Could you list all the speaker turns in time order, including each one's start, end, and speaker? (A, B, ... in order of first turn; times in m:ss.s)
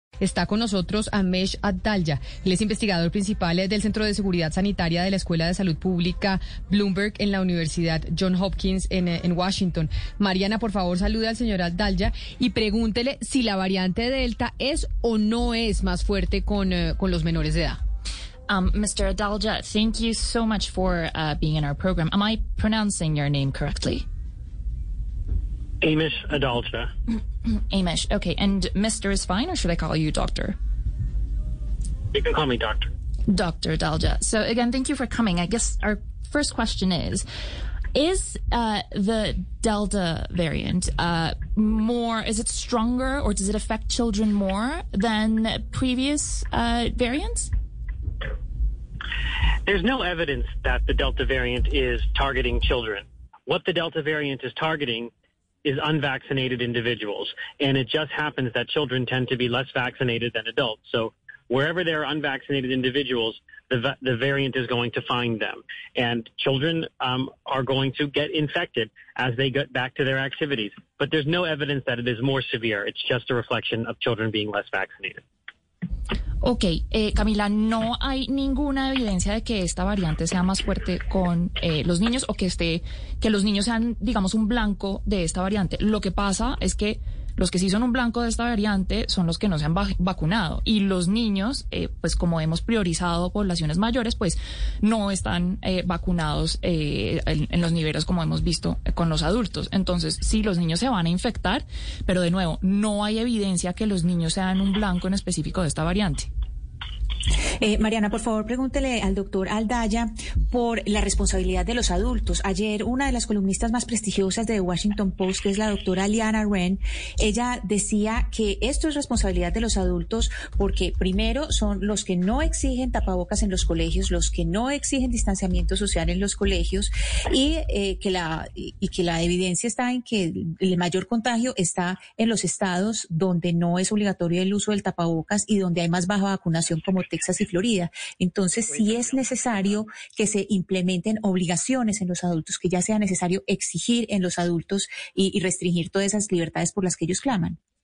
0:00.2-0:17.8 A
0:18.5-0:24.0 B
0:25.8-0:26.9 C
0:27.5-0:30.6 B
0:32.1-0:32.9 C
0:33.3-0:37.2 B
0:37.9-0:47.5 B
0:49.7-0:55.1 C
0:55.6-1:15.2 C
1:16.4-1:46.3 B
1:47.6-2:27.6 D
2:19.0-2:19.5 C